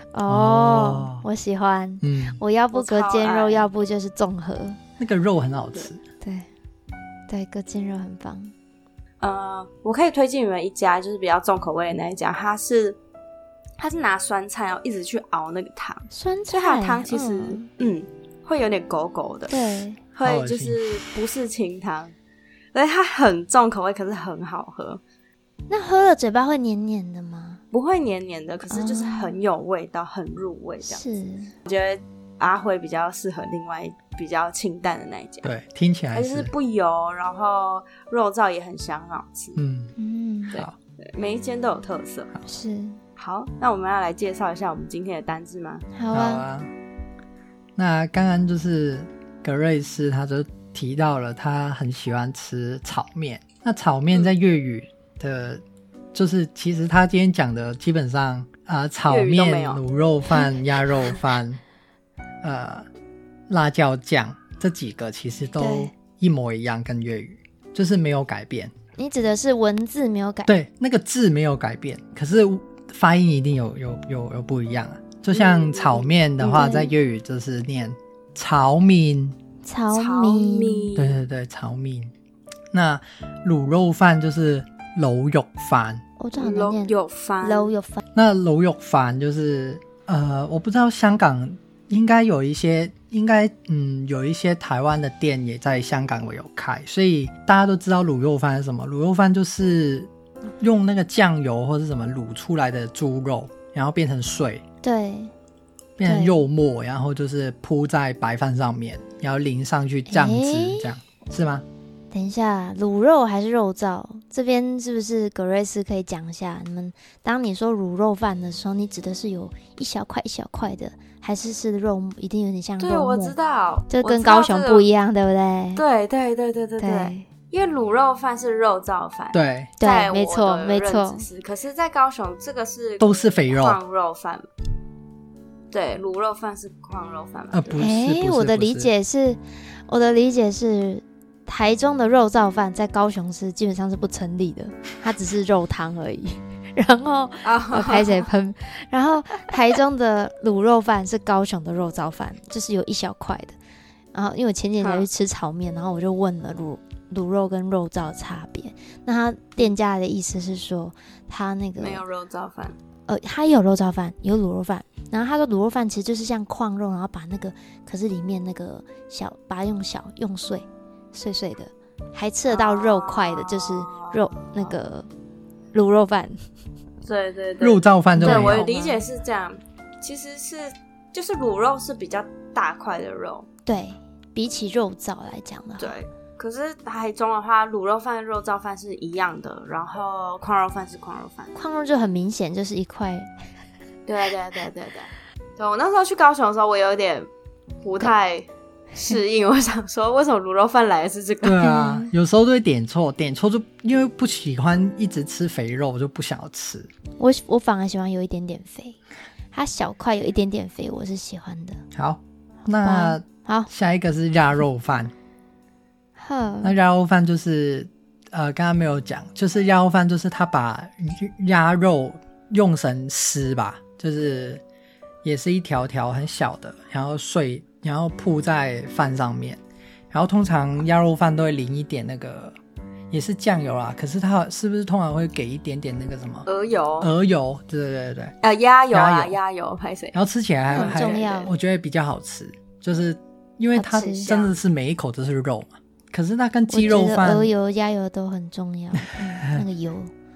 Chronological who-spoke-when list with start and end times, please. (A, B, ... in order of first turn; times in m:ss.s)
0:00.1-0:04.8 A
0:00.2-0:01.2 B
0:02.0-0:02.4 B
0:02.7-0:03.7 C
0:05.0-0:06.0 B
0:06.2-0:06.5 A
0:07.3-0:08.5 A
0:09.2-0:13.0 C
0:13.8-0:22.1 C
0:16.1-0:17.7 A
0:19.5-0:20.0 A
0:20.2-0:20.8 B
0:22.7-0:25.0 C
0:25.7-0:27.6 A
0:27.7-0:31.0 C
0:28.7-0:29.3 A
0:30.8-0:31.5 A
0:31.7-0:35.5 C
0:35.4-0:36.5 B
0:36.1-0:39.6 C
0:39.6-0:39.9 B
0:40.0-0:40.6 A
0:40.5-0:42.3 C
0:42.4-0:43.0 A
0:43.2-0:45.8 C
0:45.9-0:46.4 A
0:46.1-0:46.7 B
0:47.8-0:55.6 B
0:56.1-1:01.6 B
0:59.1-0:59.8 C
1:02.4-1:02.8 B
1:03.5-1:08.7 B
1:05.6-1:05.9 A
1:09.0-1:10.5 A
1:10.4-1:19.4 B
1:15.3-1:16.8 C
1:16.4-1:16.9 A
1:19.6-1:21.0 A
1:19.9-1:21.2 C
1:21.0-1:22.1 B
1:22.7-1:26.0 B
1:26.2-1:28.0 A
1:26.4-1:27.7 C
1:28.1-1:44.6 B
1:44.8-1:45.3 A
1:46.0-1:51.6 B
1:46.0-1:46.4 A
1:50.1-1:50.9 A
1:52.1-2:03.3 A
2:02.8-2:04.9 C
2:03.9-2:05.8 A
2:05.8-2:14.4 C
2:06.8-2:07.3 A
2:09.3-2:09.7 B
2:09.8-2:11.3 A
2:13.0-2:13.8 B
2:15.7-2:17.8 C
2:17.5-2:18.9 B
2:17.8-2:33.5 A
2:27.4-2:28.3 C
2:34.1-2:42.0 A
2:34.8-2:35.1 C
2:41.8-2:42.8 C
2:43.1-2:55.1 A
2:52.5-2:54.7 C
2:55.7-2:56.4 A
2:57.0-3:03.4 C
2:57.6-2:58.6 B
2:58.2-2:59.0 A
3:03.6-3:05.9 A
3:05.8-3:11.5 C
3:11.5-3:13.3 A
3:14.1-3:17.3 C
3:17.8-3:21.6 C
3:21.4-3:26.9 B
3:21.6-3:22.1 A
3:27.2-3:29.0 A
3:29.5-3:31.8 A
3:31.9-3:35.1 B
3:32.7-3:33.7 A
3:36.2-3:36.8 A
3:36.6-3:44.6 B
3:45.2-3:49.6 B
3:50.1-3:52.6 B
3:53.1-3:56.5 B
3:56.4-3:57.1 C
3:57.0-3:58.3 B
3:58.4-4:00.2 C
3:58.9-3:59.4 B
4:00.1-4:07.5 B
4:00.7-4:01.5 A
4:00.7-4:01.3 C
4:03.7-4:04.3 A
4:04.1-4:04.6 C
4:06.7-4:10.1 A